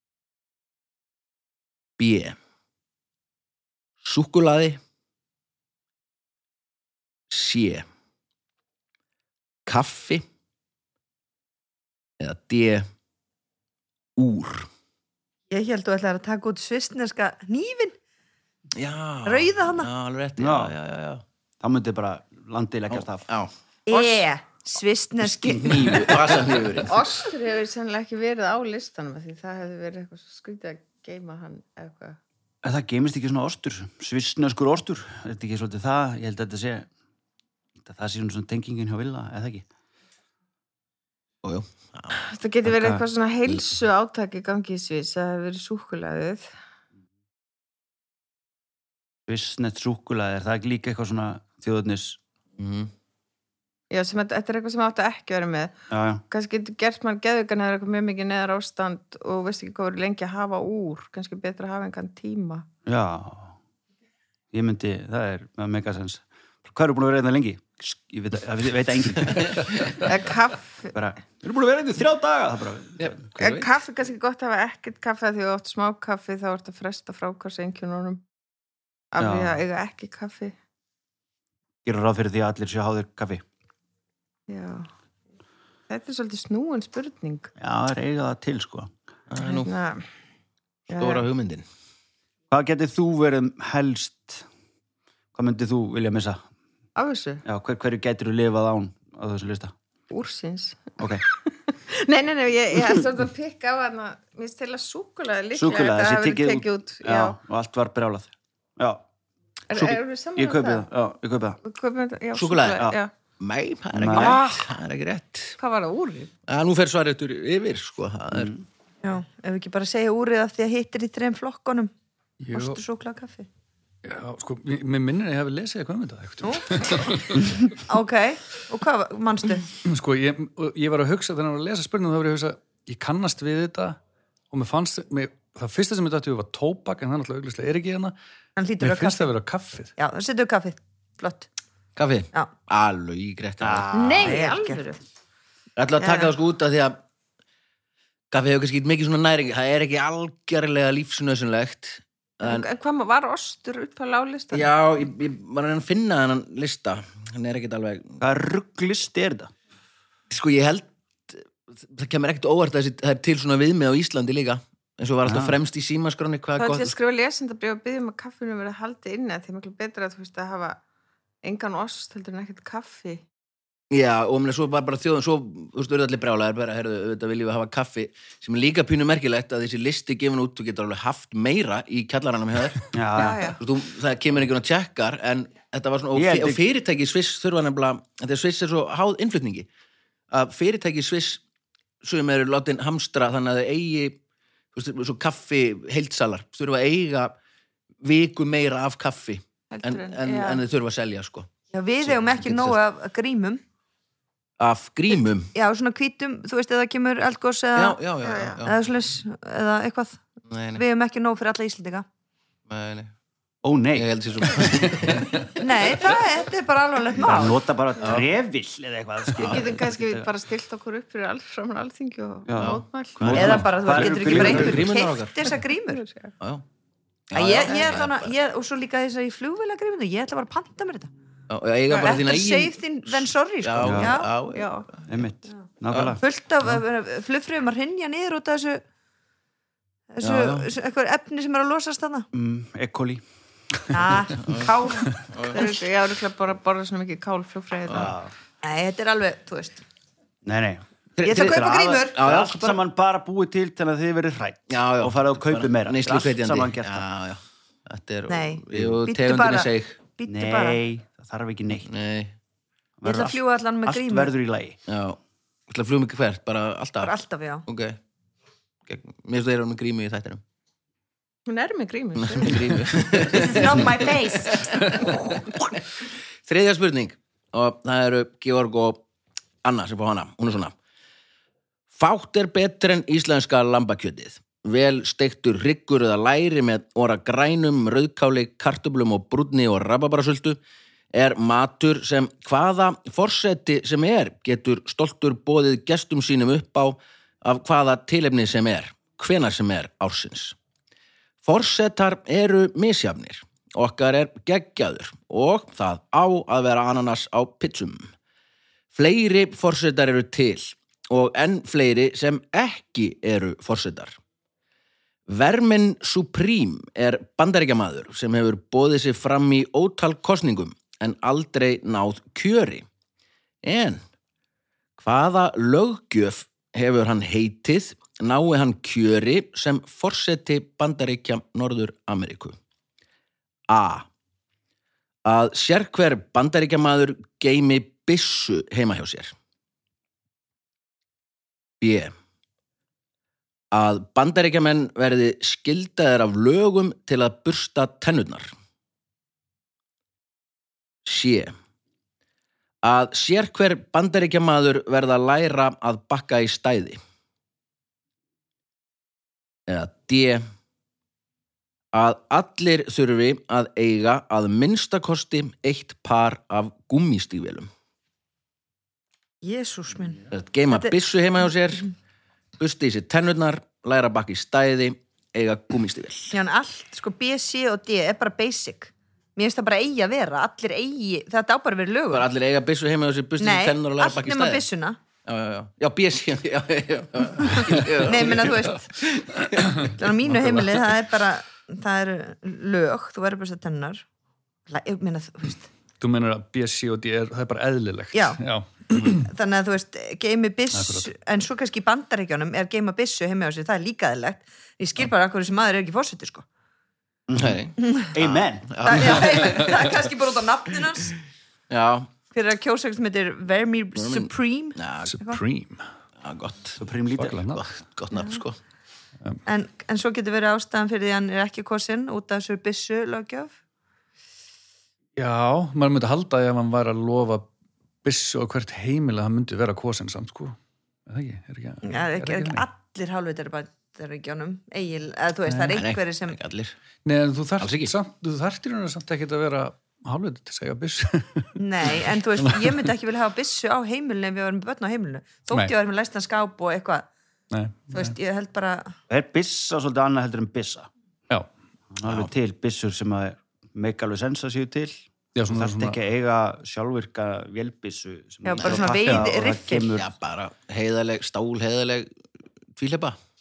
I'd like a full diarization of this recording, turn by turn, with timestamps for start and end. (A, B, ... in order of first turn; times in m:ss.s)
0:02.0-0:02.4 A
0:04.0-0:04.8 A
0:07.3-0:07.8 A
0:09.6-0:10.2 A
0:12.2-0:12.8 A
0:14.2-0:14.7 A
0:15.5-0:17.9 B
0:18.8-0:21.2 A
0:19.2-0:19.9 B
0:20.4-0:20.7 C
0:21.6-0:23.2 C
0:22.9-0:23.5 A
0:23.9-0:26.1 B
0:23.9-0:24.2 D
0:25.4-0:26.1 C
0:25.5-0:27.0 A
0:26.9-0:32.2 D
0:32.6-0:36.9 C
0:37.8-0:39.6 C
0:41.4-0:42.2 A
0:42.2-0:46.5 D
0:42.6-0:43.0 C
0:49.3-0:52.2 C
0:52.6-0:52.9 A
0:53.9-0:55.7 D
0:55.9-0:56.2 C
0:56.3-1:02.6 D
1:02.8-1:03.6 C
1:04.5-1:09.7 C
1:09.3-1:10.0 A
1:10.0-1:10.9 D
1:10.9-1:13.2 C
1:13.0-1:13.7 A
1:13.4-1:18.2 D
1:19.1-1:20.5 D
1:19.2-1:19.6 C
1:21.8-1:23.4 C
1:24.5-1:24.9 D
1:25.9-1:27.5 D
1:27.6-1:28.9 C
1:29.3-1:29.7 A
1:29.4-1:30.0 D
1:30.9-1:31.2 D
1:30.9-1:31.6 A
1:32.5-1:34.4 C
1:35.3-1:36.4 C
1:37.0-1:37.4 D
1:37.4-1:39.7 C
1:40.1-1:47.4 D
1:45.5-1:49.0 C
1:49.7-1:50.8 D
1:49.7-1:51.6 C
1:51.6-1:53.1 D
1:52.3-1:52.9 A
1:53.4-1:55.6 A
1:53.9-1:54.4 C
1:54.1-1:54.7 D
1:55.6-1:56.3 D
1:56.5-1:58.5 A
1:58.3-1:58.6 C
1:59.0-2:01.9 B
2:02.4-2:02.8 E
2:02.5-2:03.5 B
2:04.0-2:07.7 E
2:06.4-2:09.7 B
2:09.8-2:14.0 E
2:14.5-2:18.1 E
2:18.6-2:19.3 B
2:18.8-2:19.9 E
2:20.0-2:21.5 B
2:22.0-2:24.0 A
2:23.6-2:24.4 C
2:23.9-2:25.0 D
2:24.2-2:24.8 B
2:25.8-2:27.0 A
2:28.3-2:32.7 A
2:32.4-2:34.7 D
2:34.5-2:38.2 A
2:38.2-2:39.5 C
2:40.3-2:46.9 A
2:45.2-2:45.6 C
2:46.6-2:50.8 D
2:51.4-2:53.2 D
2:53.9-3:09.7 A
3:02.9-3:03.6 C
3:03.2-3:03.6 D
3:06.1-3:06.6 C
3:10.3-3:11.4 A
3:12.0-3:14.2 A
3:14.7-3:17.3 A
3:18.0-3:21.5 A
3:19.7-3:20.6 D
3:21.7-3:23.6 B
3:22.0-3:22.8 A
3:24.6-3:25.5 A
3:25.5-3:28.0 B
3:27.7-3:28.8 A
3:28.2-3:28.6 D
3:28.6-3:30.2 B
3:30.5-3:30.8 A
3:30.8-3:32.0 B
3:32.7-3:33.1 A
3:33.6-3:34.7 C
3:33.9-3:35.6 A
3:35.6-3:37.6 B
3:37.2-3:40.3 C
3:38.0-3:38.3 A
3:39.4-3:43.6 D
3:42.5-3:45.0 C
3:42.6-3:45.5 A
3:43.3-3:46.0 B
3:45.9-3:46.3 D
3:47.3-3:48.3 A
3:47.3-3:51.1 B
3:47.6-3:47.9 D
3:51.5-3:55.2 A
3:52.0-3:54.3 B
3:53.8-3:54.2 C
3:54.5-3:54.8 D
3:55.1-3:56.2 C
3:55.9-3:56.2 A
3:56.2-3:58.8 B
4:00.1-4:02.3 B
4:00.2-4:00.7 A
4:02.3-4:03.2 C
4:03.9-4:05.7 B
4:04.4-4:05.6 A
4:05.5-4:08.1 D
4:07.9-4:08.3 C
4:08.6-4:09.8 B
4:10.4-4:17.0 C
4:11.2-4:12.8 A
4:11.2-4:12.2 B
4:14.7-4:20.0 A
4:18.3-4:20.8 B
4:20.3-4:21.9 C
4:21.8-4:22.3 A
4:23.0-4:24.8 C
4:23.0-4:24.3 B
4:24.9-4:27.1 A
4:27.0-4:27.6 B
4:27.6-4:28.0 A
4:28.9-4:30.4 A
4:31.5-4:33.7 D
4:32.2-4:35.8 A
4:33.3-4:34.9 B
4:36.4-4:39.0 A
4:39.6-4:40.7 A
4:41.9-4:50.6 A
4:51.1-5:00.6 A
5:01.4-5:08.1 A
5:08.9-5:14.2 A
5:15.3-5:22.9 A
5:23.6-5:24.0 A
5:25.0-5:32.6 A
5:33.7-5:34.1 A
5:35.2-5:39.3 A
5:41.8-5:42.1 A
5:43.7-5:48.5 A
5:51.0-5:51.5 A
5:52.8-5:57.0 A
5:59.7-6:00.4 A
6:01.9-6:07.7 A
6:09.4-6:10.9 B
6:10.3-6:11.9 A
6:12.6-6:16.4 A
6:16.3-6:22.3 B
6:22.1-6:24.6 A
6:23.4-6:25.0 B
6:25.2-6:29.9 A
6:28.0-6:28.9 B
6:29.8-6:34.0 B
6:29.8-6:30.8 E
6:34.7-6:35.7 B
6:36.0-6:39.3 E
6:38.1-6:46.4 B
6:40.7-6:41.1 E
6:47.3-6:49.2 C
6:47.4-6:49.6 A
6:47.8-6:48.1 B
6:48.8-6:51.2 B
6:51.7-6:52.1 A
6:52.3-6:55.4 B
6:54.0-6:55.2 A
6:55.1-6:55.8 E
6:56.2-6:56.8 A
6:56.8-6:57.4 C
6:57.2-6:57.7 E
6:57.4-6:58.6 A
6:58.1-6:58.4 B
6:59.4-7:03.5 B
7:05.2-7:07.5 E
7:08.0-7:10.6 E
7:11.1-7:12.6 E
7:11.8-7:16.4 B
7:15.5-7:15.8 E
7:15.7-7:16.8 A
7:17.0-7:22.9 E
7:17.6-7:17.9 A
7:21.6-7:27.1 B
7:27.5-7:28.1 E
7:27.9-7:29.0 B
7:29.1-7:30.9 C
7:31.9-7:40.1 C
7:32.0-7:32.3 A
7:35.4-7:36.0 E
7:38.4-7:39.9 B
7:39.9-7:42.1 A
7:42.8-7:43.2 A